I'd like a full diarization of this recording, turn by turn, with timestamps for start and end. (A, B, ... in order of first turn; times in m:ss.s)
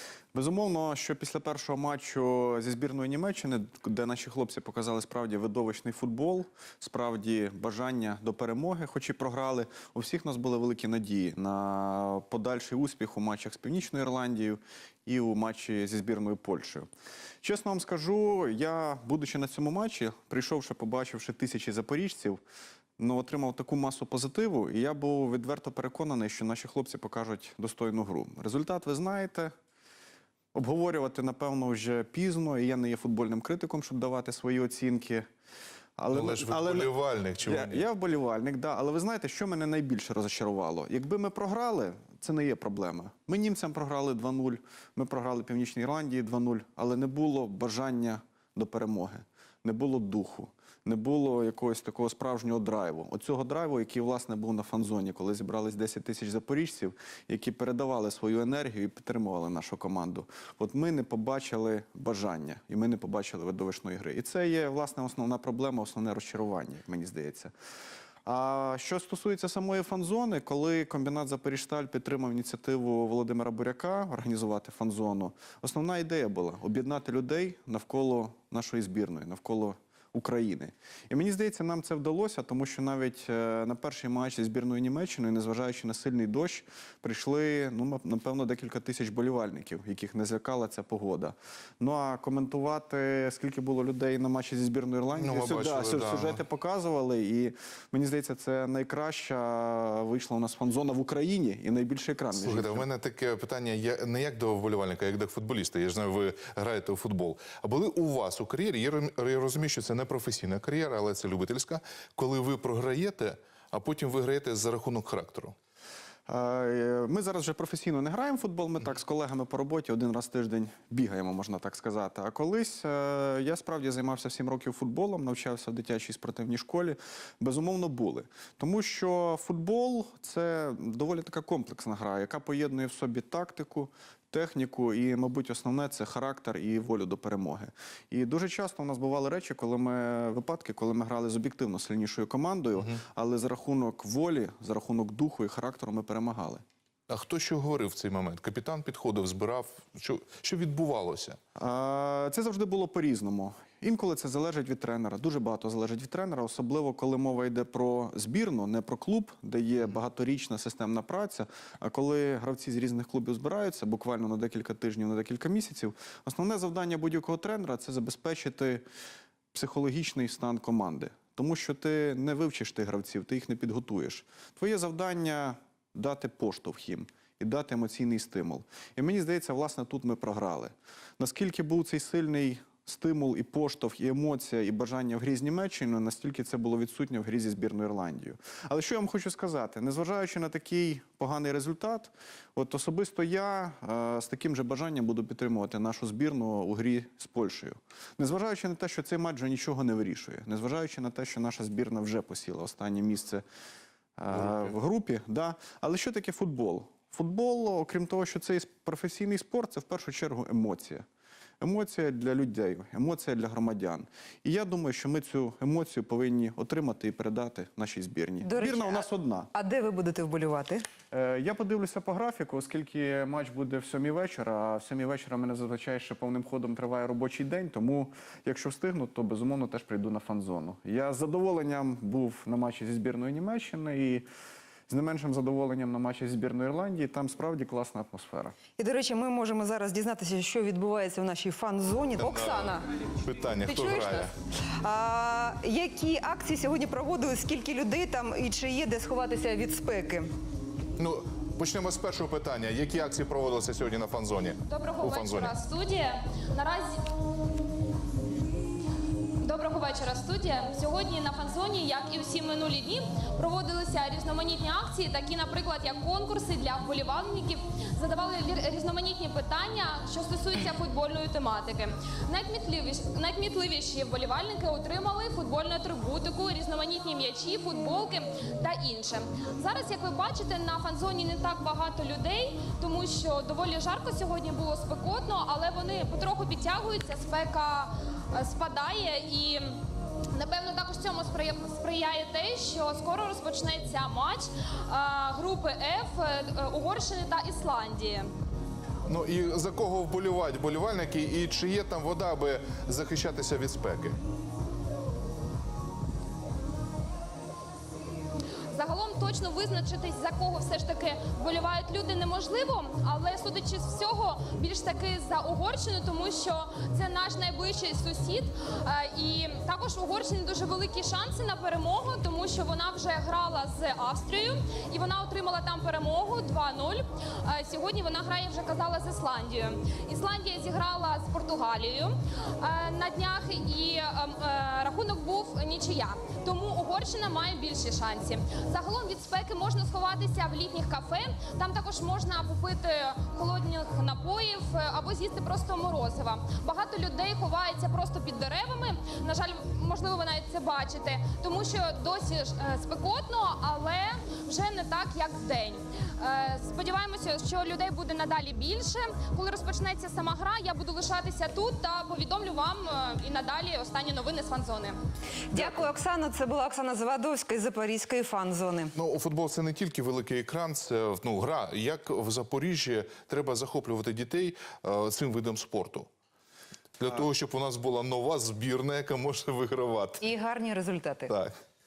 0:00.3-0:16.9 A
0:17.4-0:22.4 A
0:23.0-0:29.5 A
0:30.5-0:35.3 A
0:36.0-1:07.5 A
0:36.1-0:37.8 B
1:08.2-1:42.9 A
1:35.1-1:36.4 B
1:42.3-1:55.6 B
1:56.3-2:26.6 A
2:27.1-2:31.4 B
2:31.6-2:48.8 A
2:49.5-3:23.4 A
3:24.2-3:31.0 A
3:24.3-3:24.7 B
3:31.6-3:39.5 A
3:38.4-3:40.9 C
3:41.1-3:54.3 A
3:54.9-3:58.6 A
3:58.8-4:02.8 C
4:02.2-4:04.3 B
4:03.6-4:04.3 C
4:04.8-4:10.3 C
4:11.0-4:15.5 B
4:14.6-4:17.0 D
4:19.4-4:49.8 D
4:50.3-4:58.3 D
4:59.1-5:04.2 B
5:08.7-6:05.0 D
6:05.5-6:08.9 C
6:05.5-6:05.8 D
6:08.9-6:16.1 B
6:17.0-6:20.3 B
6:20.2-6:21.3 C
6:21.3-6:21.5 B